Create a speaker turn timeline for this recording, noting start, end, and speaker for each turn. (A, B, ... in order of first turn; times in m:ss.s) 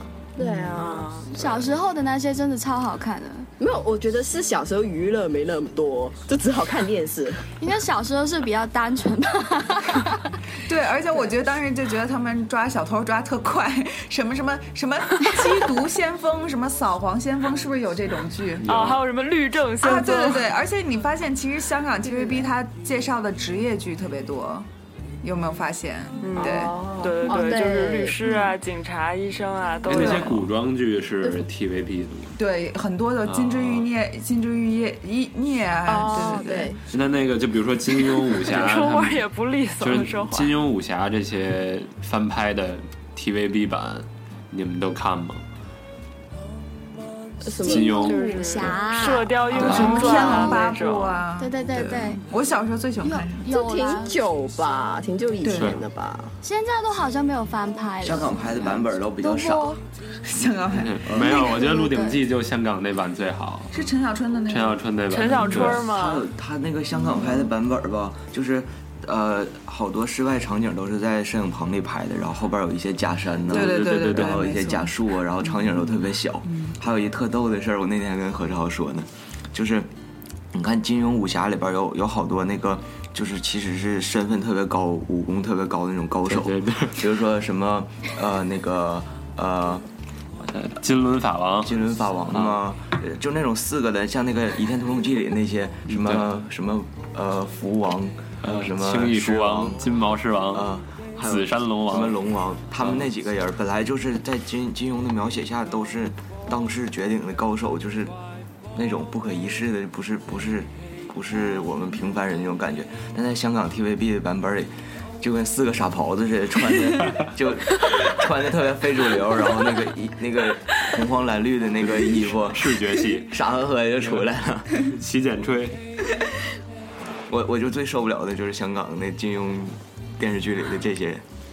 0:00.4-0:01.3 A
0:01.3-0:03.5 B
0:03.6-0:07.4 A
0:07.6-0:10.2 B
0:10.6-0:18.6 C
0:18.6-0:19.0 D
0:18.7-0:20.5 E
0:19.8-0:24.7 C
0:25.2-0:26.7 C
0:26.2-0:30.4 E
0:26.4-0:28.2 A
0:29.9-0:32.4 D
0:29.9-0:30.4 C
0:32.4-0:36.7 C
0:33.2-0:33.9 D
0:35.9-0:36.8 A
0:36.9-0:39.2 D
0:38.4-0:40.6 E
0:39.8-0:45.4 D
0:47.4-0:48.7 A
0:47.6-0:48.8 D
0:47.6-0:50.6 B
0:48.1-0:51.2 E
0:49.5-0:50.4 D
0:49.5-0:53.4 C
0:49.9-0:50.2 A
0:51.4-0:52.2 B
0:53.0-0:54.2 B
0:53.4-0:56.3 A
0:55.4-0:55.8 C
0:55.6-0:55.8 D
0:56.4-0:59.8 B
0:58.0-0:59.8 F
1:00.2-1:01.0 C
1:00.7-1:03.8 D
1:01.1-1:01.4 F
1:01.2-1:02.2 B
1:03.7-1:04.8 C
1:04.5-1:05.9 D
1:05.1-1:06.2 E
1:05.5-1:19.9 F
1:07.0-1:07.5 C
1:13.5-1:14.5 D
1:13.5-1:14.9 C
1:15.4-1:15.9 C
1:16.4-1:16.7 C
1:20.5-1:29.8 F
1:26.3-1:27.1 D
1:30.4-1:31.8 D
1:31.6-1:39.8 F
1:32.3-1:32.6 D
1:35.9-1:36.3 D
1:38.4-1:40.7 D
1:40.5-1:48.2 F
1:41.2-1:42.2 D
1:42.8-1:43.1 D
1:48.7-2:04.8 F
2:01.8-2:03.4 D
2:04.0-2:05.8 D
2:07.3-2:11.2 F